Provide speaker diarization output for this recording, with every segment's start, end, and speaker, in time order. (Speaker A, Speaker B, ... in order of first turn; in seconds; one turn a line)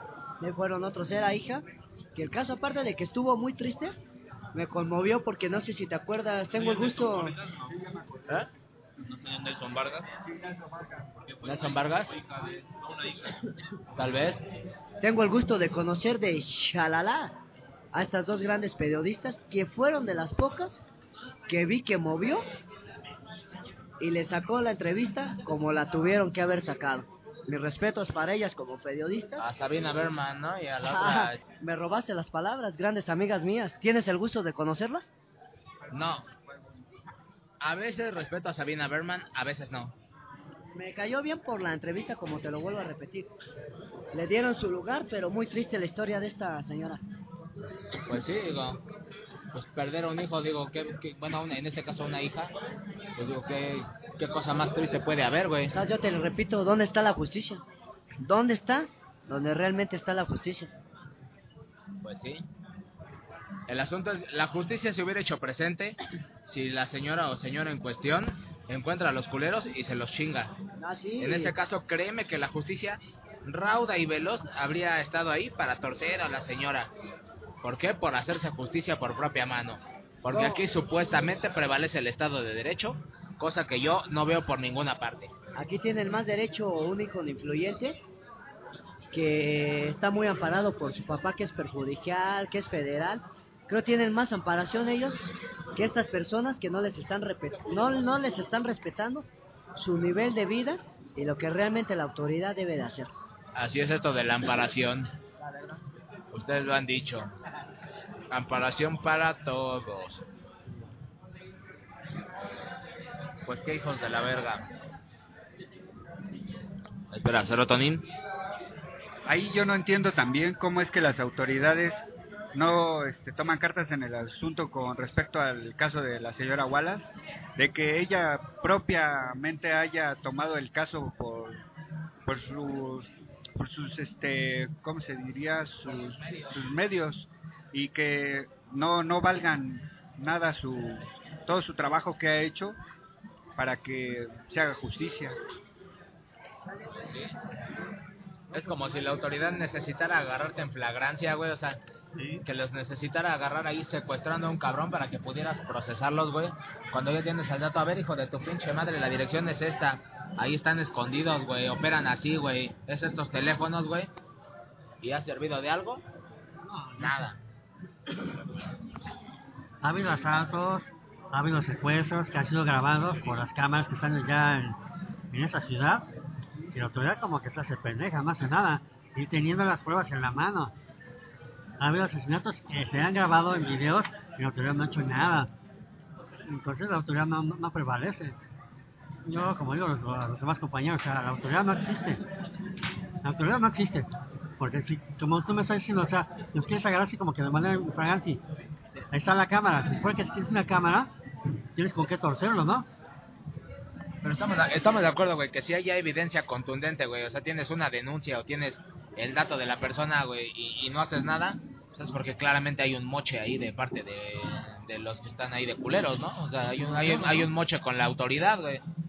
Speaker A: 0.4-1.6
Speaker A: 2.1-4.0
Speaker A: 4.5-7.4
Speaker B: 6.6-7.7
Speaker C: 7.6-8.4
Speaker B: 9.1-10.1
Speaker C: 10.2-11.2
Speaker B: 11.2-13.6
Speaker D: 11.4-12.1
Speaker D: 13.9-14.4
Speaker A: 15.0-17.3
Speaker A: 17.9-20.8
Speaker A: 21.5-22.5
Speaker A: 24.0-29.5
Speaker D: 29.4-31.4
Speaker A: 30.8-35.1
Speaker C: 35.9-36.7
Speaker D: 35.9-36.3
Speaker D: 37.6-39.9
Speaker A: 40.7-43.3
Speaker A: 44.1-47.0
Speaker D: 48.0-48.8
Speaker D: 49.5-52.5
Speaker D: 53.2-55.7
Speaker A: 55.7-57.6
Speaker A: 58.2-60.7
Speaker D: 62.0-62.5
Speaker D: 63.7-70.5
Speaker A: 70.8-71.5
Speaker D: 71.2-76.9
Speaker D: 77.6-85.3
Speaker A: 80.3-80.6
Speaker A: 85.5-88.0
Speaker A: 89.1-103.1
Speaker D: 103.5-105.1
Speaker D: 106.3-107.3
Speaker D: 108.3-110.3
Speaker D: 113.5-114.7
Speaker D: 117.1-118.1
Speaker C: 119.3-131.6
Speaker C: 132.3-142.8
Speaker D: 135.9-136.6
Speaker C: 143.6-145.4
Speaker D: 148.5-151.8
Speaker E: 152.2-152.4
Speaker D: 152.4-164.1
Speaker D: 165.0-166.0
Speaker E: 166.7-167.1
Speaker D: 167.0-167.4
Speaker E: 169.8-174.8
Speaker E: 175.3-176.1
Speaker E: 176.7-180.7
Speaker E: 181.8-185.5
Speaker E: 186.4-188.4
Speaker E: 189.2-192.2
Speaker E: 193.2-194.1
Speaker E: 194.6-198.4
Speaker E: 199.1-201.1
Speaker E: 201.7-202.9
Speaker D: 204.2-218.8